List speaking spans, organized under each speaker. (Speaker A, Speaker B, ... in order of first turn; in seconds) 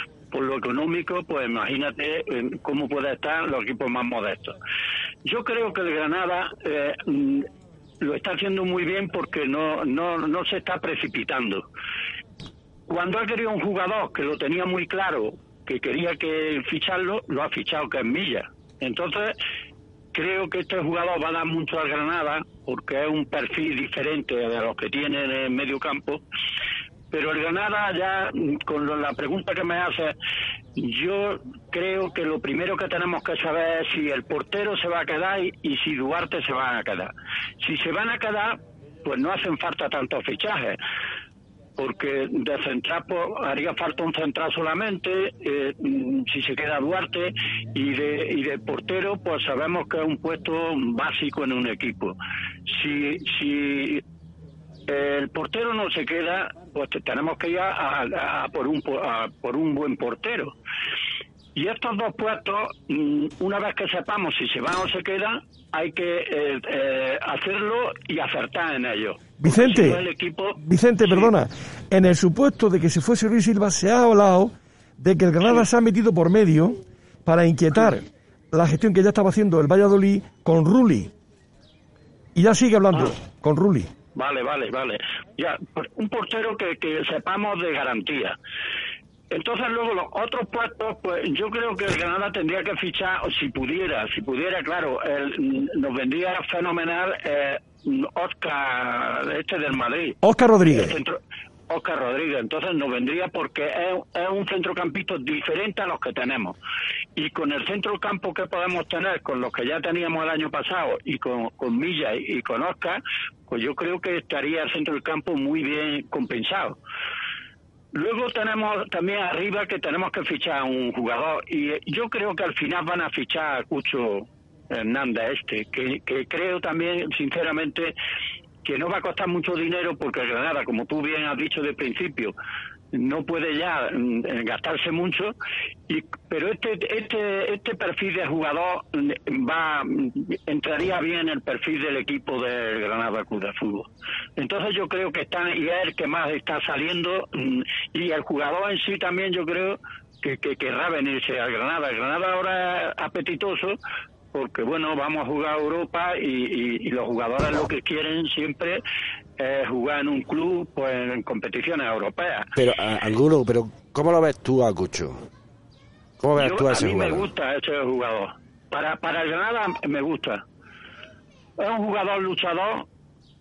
Speaker A: 0.3-4.5, 5.2-7.5, 8.0-11.6, 12.9-19.4, 20.1-26.2, 27.1-30.1, 30.8-40.8, 41.8-52.1, 52.7-54.0, 54.9-60.5, 61.5-71.3, 84.1-88.3, 89.3-100.2, 100.7-101.2, 101.7-106.5, 107.2-116.8, 117.9-127.9, 128.6-132.3, 132.9-135.3, 135.9-153.8, 154.3-158.8, 159.4-162.5, 166.4-170.4, 171.6-172.9
Speaker B: 69.4-70.0, 70.6-81.1, 82.3-83.9, 100.2-101.0
Speaker C: 162.6-165.2, 166.2-167.3